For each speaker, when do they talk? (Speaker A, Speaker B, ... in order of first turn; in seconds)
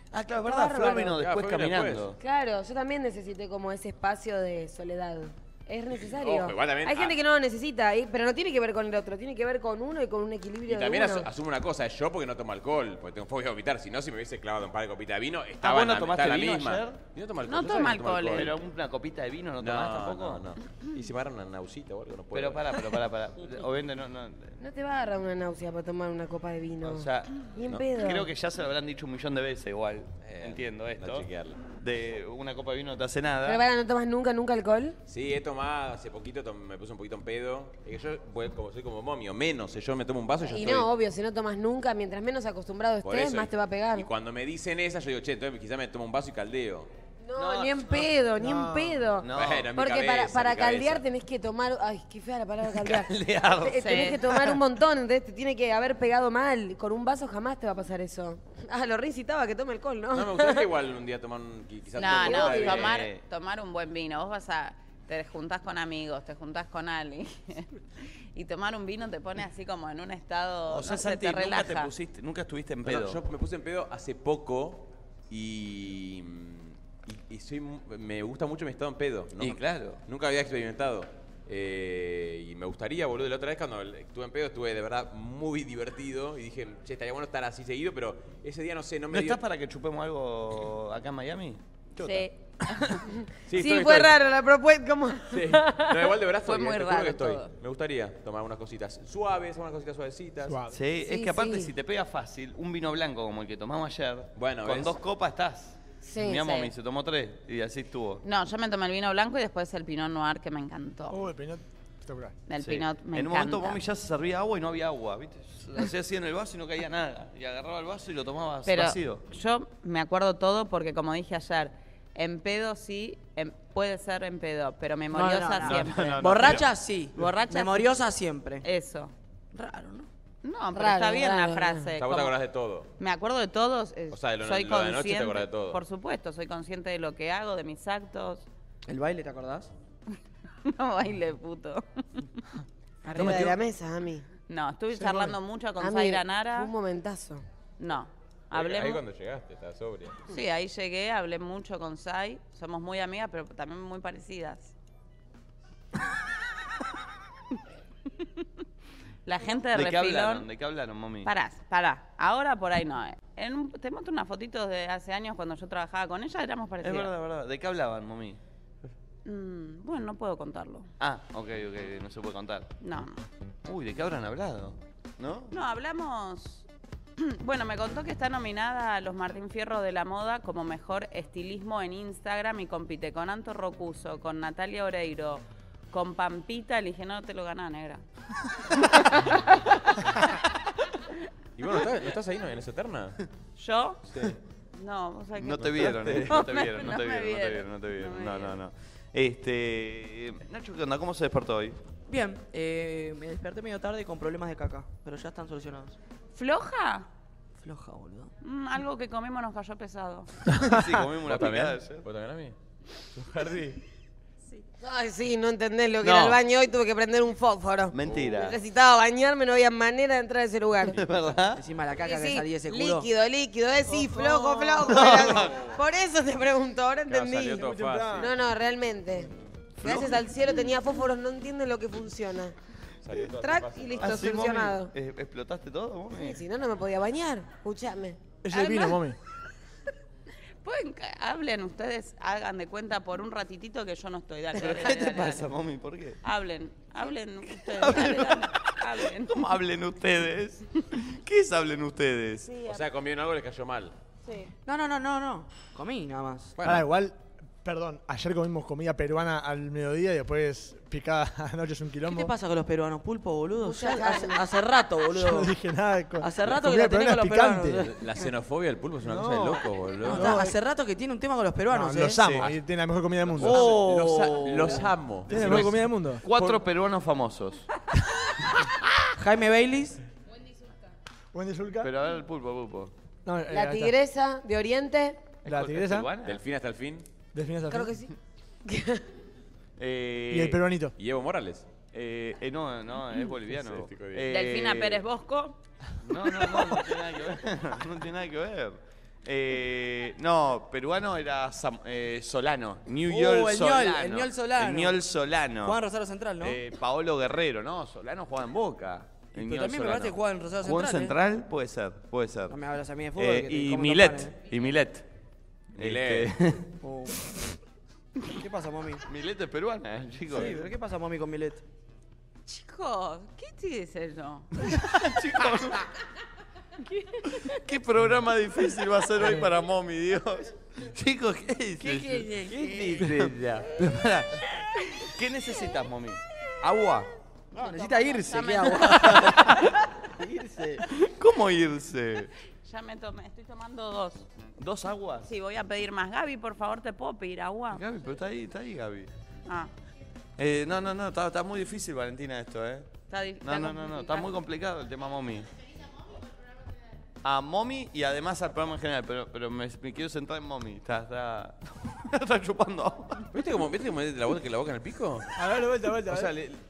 Speaker A: 0.1-2.2, 15.6-17.0, 18.3-20.4, 22.3-24.6, 26.8-33.6, 47.4-49.7, 52.8-54.6, 62.1-63.2, 70.7-73.2, 79.4-80.0, 89.1-91.6, 100.7-108.2, 112.6-119.2, 125.6-126.6, 159.7-161.3, 166.8-168.4, 171.0-172.7, 173.7-175.5, 195.4-201.8, 210.5-212.1, 216.0-216.4, 217.9-218.6, 220.9-221.6, 224.8-225.6, 229.8-230.2, 234.0-236.4, 244.5-246.2, 247.5-252.5, 275.3-277.7, 281.8-282.9, 285.4-286.4, 289.8-290.6, 291.9-295.0, 296.0-305.8, 306.4-312.6, 313.2-315.1, 315.8-316.6, 319.1-320.7, 324.8-325.8, 327.3-334.4, 335.0-337.1, 338.9-339.6, 341.0-342.3, 344.6-345.3, 347.7-349.1, 350.4-355.5, 357.2-363.2
Speaker B: 0.4-1.2, 2.2-11.3, 24.6-28.3, 33.5-35.0, 40.4-44.1, 47.2-60.7, 62.0-62.9, 93.0-95.9, 101.0-101.7, 106.0-106.7, 130.7-131.9, 143.1-144.3, 145.8-147.4, 214.8-221.0, 222.1-229.3, 229.8-232.6, 233.2-234.9, 236.1-238.4, 263.6-264.4, 283.5-285.4, 287.7-288.1, 288.6-289.0
Speaker C: 1.1-2.1, 5.9-7.2, 10.7-18.5, 19.6-22.8, 30.2-31.6, 35.1-40.9, 43.0-46.9, 49.3-51.0, 60.1-63.0, 72.8-89.4, 93.5-94.2, 95.3-100.6, 104.4-105.0, 132.0-132.9, 134.1-135.8, 148.5-150.3, 191.6-193.2, 195.6-196.4, 211.2-212.6, 213.2-213.8, 218.1-218.3, 224.1-225.5, 227.1-228.3, 233.0-234.4, 252.7-253.9, 256.6-256.9, 267.8-270.4, 272.2-272.6, 273.4-275.7, 286.2-287.1, 290.9-291.7, 293.5-294.3, 315.7-316.3, 363.3-366.6
Speaker D: 17.4-18.5, 53.8-54.2, 62.0-67.7, 68.3-71.9, 92.0-93.0, 96.5-97.5, 108.2-111.2, 112.5-113.8, 118.7-126.5, 127.2-127.9, 128.6-129.1, 130.4-132.3, 133.0-138.5, 140.7-141.8, 144.5-146.7, 147.8-149.0, 150.3-154.7, 159.3-160.5, 161.2-167.1, 169.2-170.9, 172.8-173.2, 175.5-176.7, 177.2-188.0, 188.9-189.4, 193.6-194.0, 194.7-195.7, 196.2-198.6, 206.3-207.1, 208.4-210.3, 238.5-239.0, 240.6-245.5, 246.2-249.4, 294.3-295.6, 322.5-324.5, 337.6-339.2, 342.6-344.2, 345.3-347.8, 353.1-354.3
Speaker E: 100.5-100.8, 111.1-112.4, 227.6-228.3, 238.4-239.2, 256.6-262.3, 265.1-267.9, 269.0-270.5, 271.7-273.7, 275.3-276.6, 281.3-281.9, 283.2-283.9, 285.4-286.1, 287.3-287.9, 290.3-290.9, 365.4-366.3
Speaker F: 125.1-128.7, 129.5-130.1, 138.9-139.7, 143.1-143.5, 202.1-206.0, 207.6-208.3, 221.6-223.1, 254.7-256.5, 262.1-265.6, 266.2-267.9, 270.0-272.2, 273.3-274.8, 279.2-280.0, 303.1-305.0, 305.6-306.6, 309.3-311.2, 312.5-314.3, 316.8-317.2, 318.3-319.0, 320.3-321.6, 331.8-333.2, 337.5-339.5, 340.2-340.8